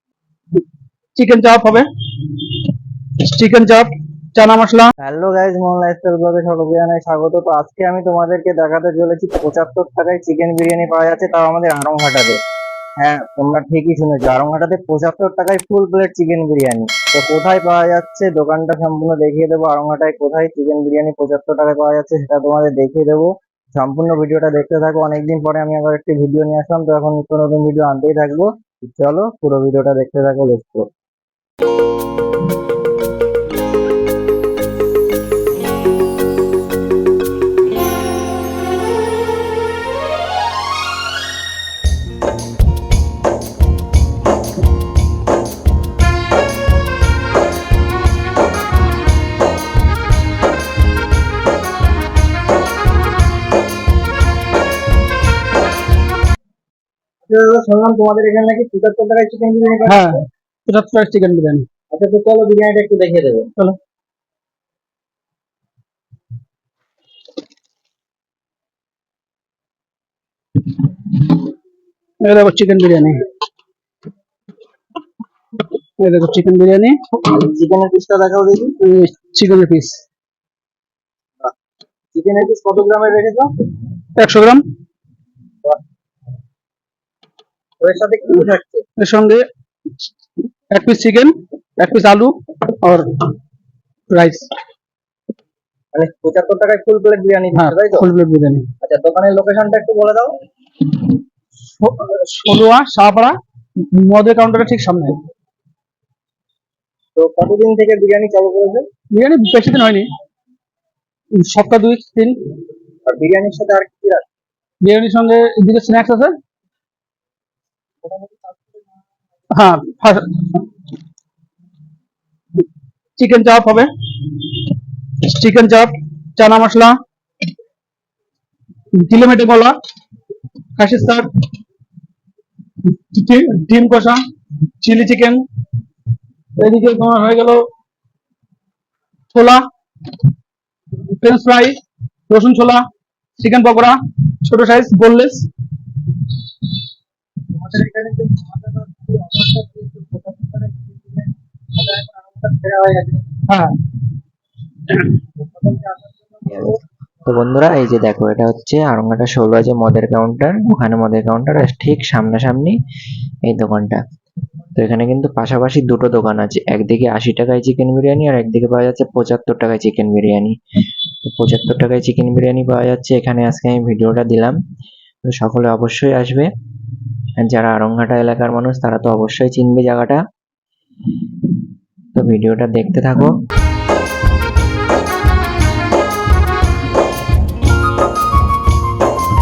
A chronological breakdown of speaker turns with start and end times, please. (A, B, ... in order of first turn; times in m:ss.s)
0:01.2-0:04.9 A
0:05.0-0:12.4 B
0:13.0-0:30.9 B
0:57.2-1:00.2 B
0:59.8-1:01.6 A
1:01.9-1:03.5 B
1:12.2-1:13.2 A
1:16.0-1:17.0 A
1:17.2-1:18.7 B
1:18.8-1:20.0 A
1:22.1-1:23.5 B
1:24.2-1:24.6 A
1:27.8-1:28.8 B
1:29.0-1:29.4 A
1:30.7-1:33.3 A
1:34.1-1:34.5 A
1:35.9-1:38.1 B
1:37.5-1:38.7 A
1:38.8-1:40.4 B
1:41.8-1:45.2 A
1:47.2-1:48.8 B
1:49.1-1:50.1 A
1:51.4-1:52.4 A
1:53.0-1:54.2 B
1:54.8-1:56.4 A
1:58.0-1:58.6 B
1:59.5-2:00.6 A
2:03.2-2:07.0 A
2:08.9-2:09.8 A
2:10.8-2:11.3 A
2:12.9-2:14.2 A
2:14.8-2:15.4 A
2:16.6-2:17.7 A
2:19.3-2:19.6 A
2:21.2-2:22.8 A
2:23.4-2:25.5 A
2:27.5-2:33.5 B
2:33.5-2:33.7 A
2:35.4-2:36.7 B
2:37.2-2:42.7 C
2:43.5-2:44.0 C
2:44.7-2:50.5 C
2:51.2-2:54.6 C
2:55.3-2:56.5 C
2:57.4-3:00.2 C
3:02.1-3:03.3 C